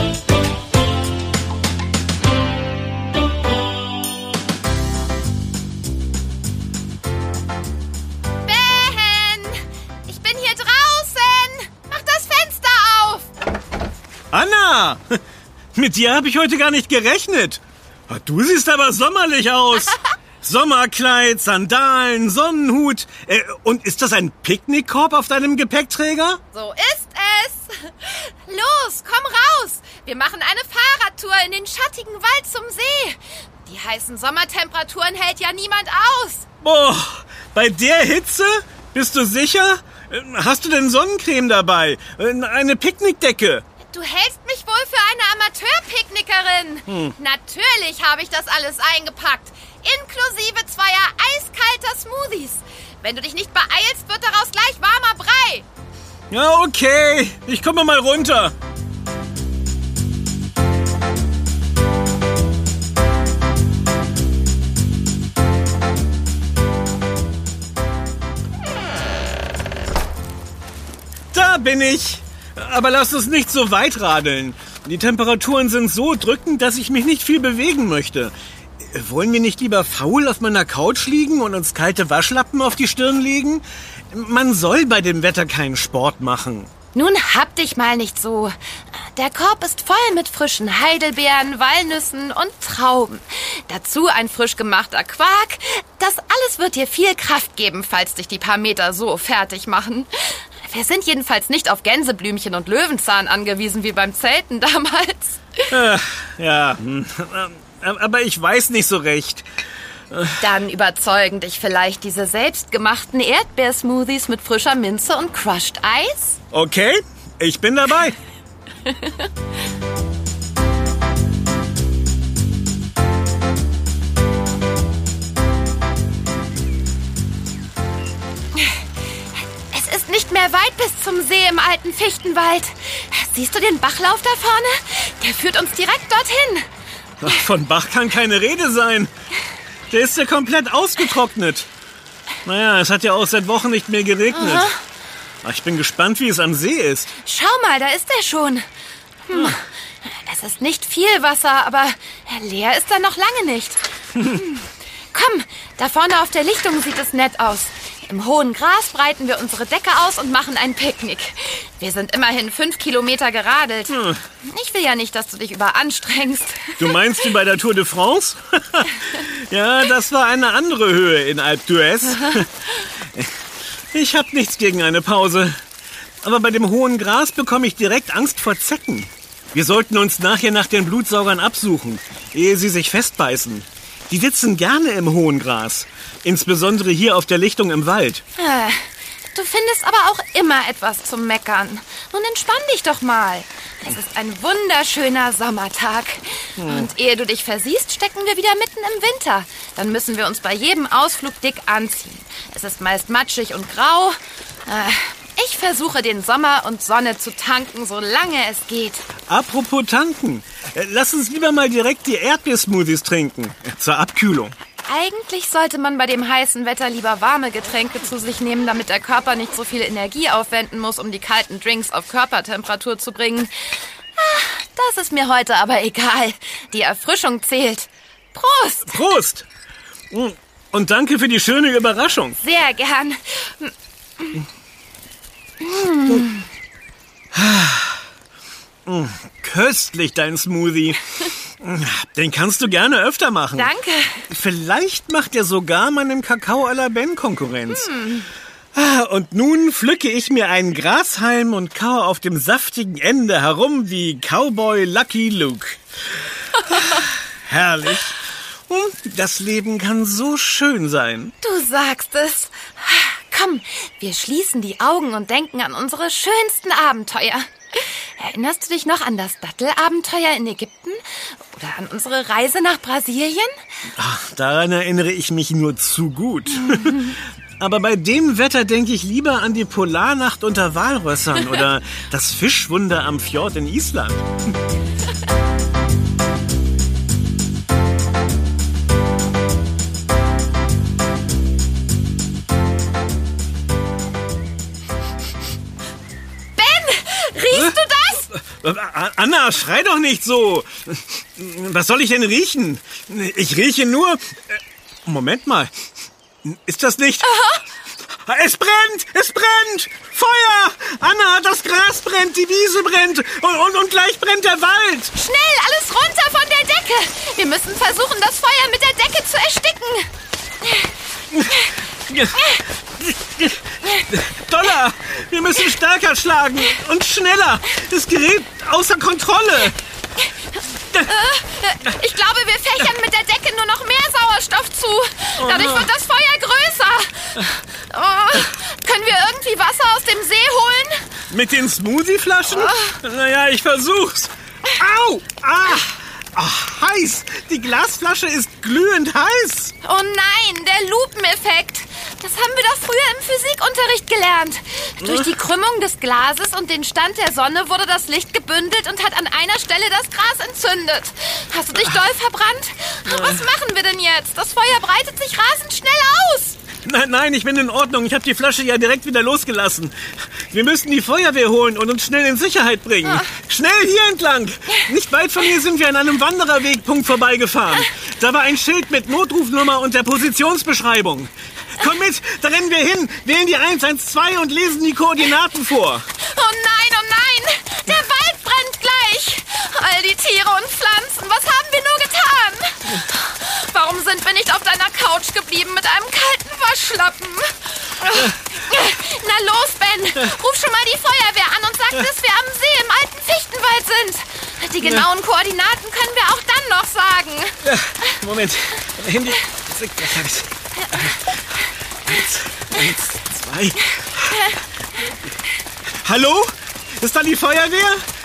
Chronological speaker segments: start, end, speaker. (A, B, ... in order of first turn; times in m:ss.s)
0:08.4-0:13.3 A
0:14.3-0:15.2 B
0:15.8-0:26.4 B
0:26.5-0:36.5 A
0:36.6-0:43.6 B
0:43.8-0:55.7 A
0:46.9-0:47.1 B
0:56.3-0:58.5 B
1:11.3-1:26.7 B
1:26.9-1:45.7 A
1:45.7-1:49.5 B
1:50.1-1:50.4 B
1:50.4-1:56.4 A
1:56.5-1:58.2 B
1:58.8-1:59.3 A
2:09.7-2:16.7 A
2:17.2-2:19.1 B
2:19.9-2:21.7 B
2:22.4-2:24.7 B
2:24.3-2:24.8 A
2:25.4-2:27.1 B
2:27.2-2:28.7 A
2:29.3-2:46.9 A
2:43.9-2:44.2 B
2:46.8-2:53.3 B
2:53.9-2:55.6 B
2:56.2-3:08.2 B
3:08.4-3:29.0 A
3:16.6-3:16.9 B
3:29.3-3:34.6 B
3:34.8-3:43.5 A
3:44.2-3:49.0 A
3:48.9-3:49.5 B
3:50.1-3:52.4 B
3:52.4-3:54.4 A
3:55.6-3:56.4 A
3:57.3-3:58.0 B
3:58.9-4:03.7 B
4:03.6-4:04.3 A
4:04.3-4:07.9 B
4:07.7-4:08.3 A
4:08.7-4:15.8 B
4:16.5-4:21.3 B
4:21.4-4:33.5 A
4:34.0-4:44.3 B
4:36.7-4:37.1 A
4:56.6-4:58.3 A
4:58.3-5:05.7 B
5:06.4-5:07.3 B
5:07.2-5:07.6 A
5:08.3-5:15.1 B
5:15.2-5:20.1 A
5:21.3-5:29.8 B
5:31.0-5:41.0 A
5:35.4-5:35.9 B
5:41.3-5:49.7 B
5:42.5-5:43.0 A
5:49.8-6:06.6 A
5:55.0-5:55.3 B
6:03.1-6:03.4 B
6:06.8-6:10.0 B
6:10.5-6:26.1 B
6:26.2-6:47.6 A
6:47.6-6:51.3 B
6:52.0-6:54.5 B
6:56.0-6:58.0 B